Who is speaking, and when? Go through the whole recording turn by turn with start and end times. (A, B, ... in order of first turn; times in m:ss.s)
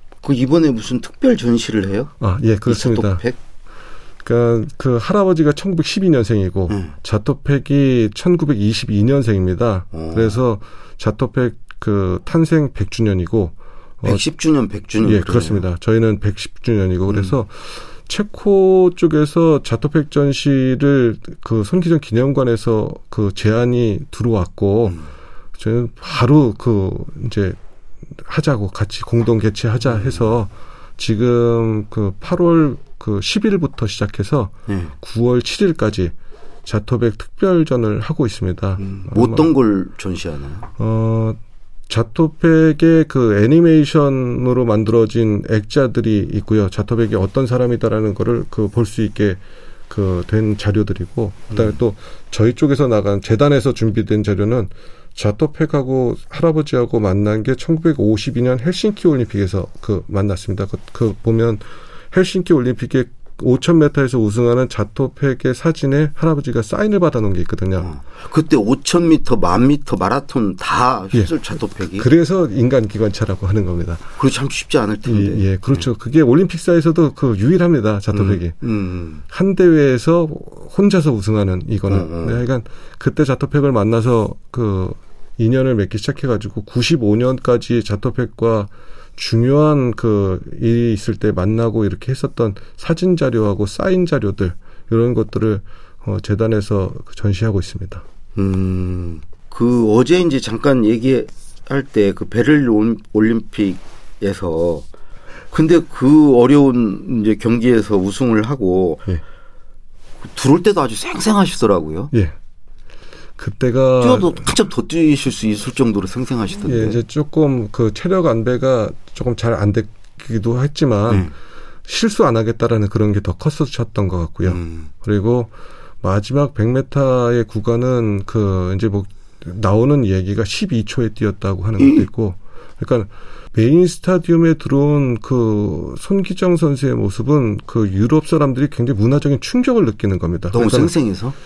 0:00.2-0:02.1 A
0:02.2-0:03.2 B
0:02.7-0:03.4 A
0:04.2-0:14.2 B
0:09.9-0:10.4 A
0:14.0-0:15.6 A
0:15.0-0:25.0 B
0:25.6-0:27.6 B
0:28.2-0:36.1 B
0:34.7-0:34.9 A
0:36.6-0:39.5 B
0:38.8-0:40.7 A
0:40.8-1:07.9 B
1:07.8-1:12.1 A
1:12.0-1:14.1 B
1:14.2-1:15.9 A
1:15.1-1:18.6 B
1:18.1-1:19.2 A
1:19.3-1:38.0 B
1:21.9-1:22.4 A
1:38.4-1:44.9 A
1:45.5-1:49.1 A
1:50.2-1:52.1 A
1:53.4-1:54.5 B
1:54.0-1:57.0 A
1:56.6-2:01.3 B
2:01.1-2:01.3 A
2:01.9-2:20.9 B
2:04.5-2:04.9 A
2:11.8-2:12.0 A
2:20.5-2:21.4 A